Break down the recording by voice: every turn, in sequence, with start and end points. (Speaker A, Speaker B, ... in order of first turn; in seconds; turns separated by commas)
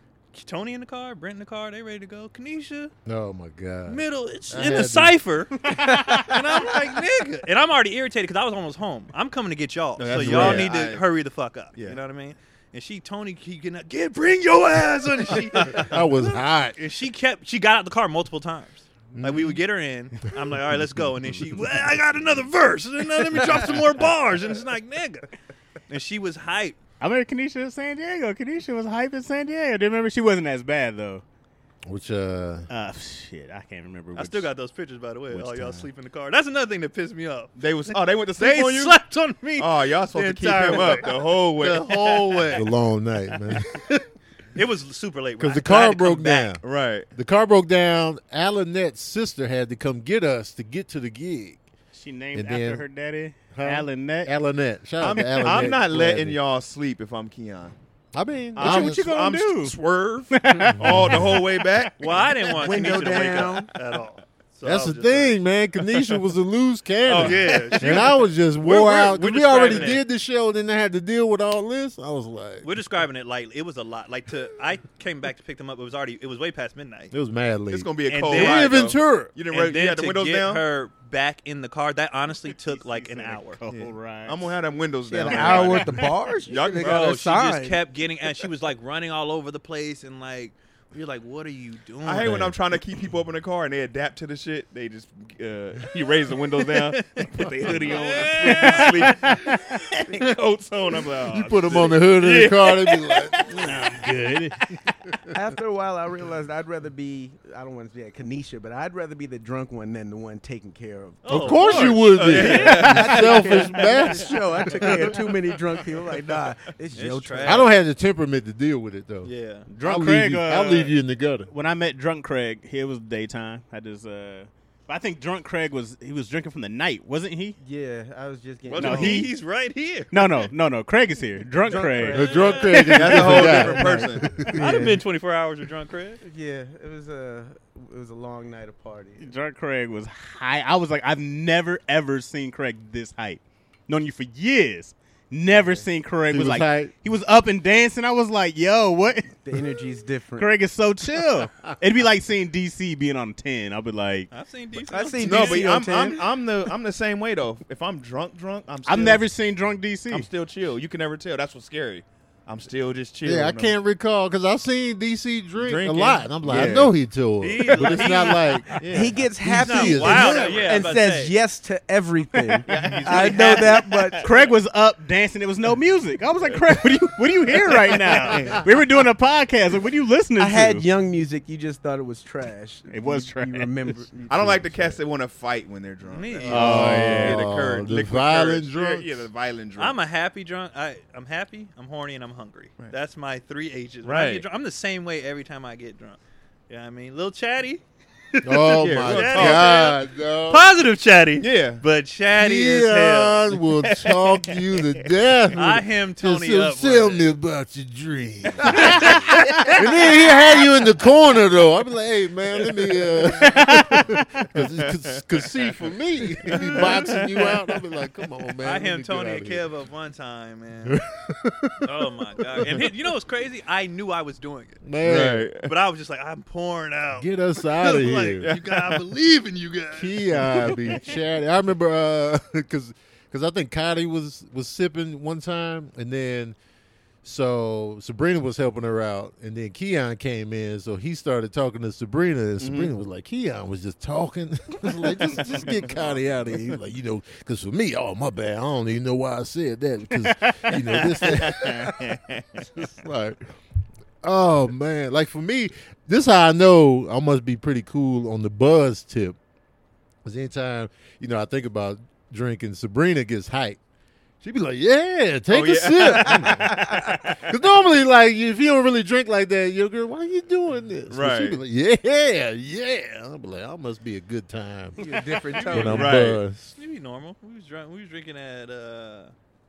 Speaker A: 0.3-2.9, Speaker B: 3.1-5.2, Speaker A: 3.9-25.3, Speaker C: 5.8-6.3, Speaker D: 10.0-11.0, Speaker B: 10.1-10.7, Speaker B: 15.7-16.8, Speaker B: 19.1-19.6, Speaker A: 25.9-26.8, Speaker C: 27.0-31.2, Speaker B: 31.9-32.7, Speaker C: 32.7-34.5, Speaker A: 34.2-42.7, Speaker C: 35.4-35.7, Speaker D: 37.6-39.0, Speaker D: 39.6-42.6, Speaker B: 42.5-44.1, Speaker A: 44.5-46.6, Speaker B: 45.4-46.6, Speaker D: 46.6-47.1, Speaker B: 47.1-51.6, Speaker C: 51.9-54.3, Speaker B: 52.3-52.9, Speaker B: 53.5-56.4, Speaker D: 55.0-57.8, Speaker B: 58.1-59.1, Speaker D: 58.6-63.5, Speaker C: 58.6-59.8, Speaker C: 60.3-61.5, Speaker B: 60.8-61.2, Speaker A: 62.0-65.4, Speaker E: 62.6-63.7, Speaker B: 64.6-72.7, Speaker D: 67.0-68.1, Speaker A: 67.1-70.0, Speaker D: 69.6-70.0, Speaker A: 72.6-77.1, Speaker B: 77.1-79.3, Speaker D: 77.7-80.6, Speaker A: 78.1-78.8, Speaker A: 79.5-83.6, Speaker C: 82.7-84.5, Speaker D: 83.7-87.2, Speaker E: 85.1-87.8, Speaker C: 85.3-86.0, Speaker A: 86.8-92.4, Speaker D: 92.0-103.5, Speaker B: 92.2-92.6, Speaker A: 96.8-99.6, Speaker C: 98.4-100.0, Speaker B: 101.3-103.5, Speaker C: 103.5-104.6, Speaker E: 105.2-117.7, Speaker A: 111.2-114.2, Speaker B: 111.3-115.1, Speaker D: 111.8-113.3, Speaker A: 117.0-117.7, Speaker B: 117.4-119.3, Speaker A: 119.2-119.7, Speaker C: 119.7-120.9, Speaker B: 119.8-121.5, Speaker C: 121.5-127.6, Speaker E: 127.6-129.3, Speaker D: 128.7-129.3, Speaker C: 128.8-129.3, Speaker A: 128.8-130.5, Speaker C: 130.1-133.6, Speaker E: 131.7-132.6, Speaker A: 132.0-133.3, Speaker B: 132.1-134.9, Speaker D: 132.8-134.4, Speaker E: 133.2-135.0, Speaker A: 134.5-136.2, Speaker E: 136.2-139.3, Speaker C: 139.2-149.4, Speaker E: 145.5-145.9, Speaker B: 146.3-146.9, Speaker E: 149.4-150.5, Speaker C: 150.4-154.3, Speaker A: 154.3-156.0, Speaker E: 154.9-156.2, Speaker D: 155.2-159.3, Speaker C: 158.8-160.3, Speaker D: 160.1-163.7, Speaker B: 163.2-170.7, Speaker D: 165.6-166.9, Speaker A: 167.4-168.8, Speaker D: 167.7-169.2, Speaker E: 168.9-174.3, Speaker A: 169.6-171.3, Speaker D: 172.7-174.3, Speaker A: 172.8-173.9, Speaker C: 174.2-180.9, Speaker D: 177.7-178.7, Speaker A: 178.1-178.3, Speaker E: 180.4-185.0, Speaker C: 182.9-184.0, Speaker D: 184.3-190.0, Speaker A: 186.0-186.9, Speaker B: 186.5-189.3, Speaker C: 186.5-187.4, Speaker A: 189.8-197.8, Speaker D: 194.0-194.4, Speaker A: 198.3-203.6, Speaker B: 198.4-200.6, Speaker D: 198.8-199.9, Speaker D: 201.4-201.8, Speaker B: 202.3-219.6, Speaker D: 203.9-204.9, Speaker A: 205.5-207.3, Speaker A: 208.8-209.7, Speaker C: 208.9-209.8, Speaker C: 213.6-214.0, Speaker D: 214.6-215.5, Speaker D: 216.4-217.6, Speaker A: 216.5-217.4, Speaker A: 218.6-221.0, Speaker B: 220.9-221.9, Speaker A: 221.8-224.9, Speaker B: 222.6-222.9, Speaker B: 224.8-225.5, Speaker D: 225.0-225.7, Speaker A: 225.6-231.2, Speaker B: 227.2-228.5, Speaker B: 229.9-236.6, Speaker D: 230.5-230.9, Speaker B: 237.2-252.0, Speaker D: 242.6-242.9, Speaker D: 245.6-246.2, Speaker C: 250.2-250.7, Speaker D: 250.7-252.7, Speaker B: 252.7-253.5, Speaker B: 254.2-259.4, Speaker B: 260.2-263.8, Speaker B: 264.4-276.7, Speaker D: 265.5-267.4, Speaker D: 271.1-271.6, Speaker E: 275.0-276.2, Speaker A: 275.6-276.2, Speaker D: 275.8-276.4, Speaker A: 276.8-279.3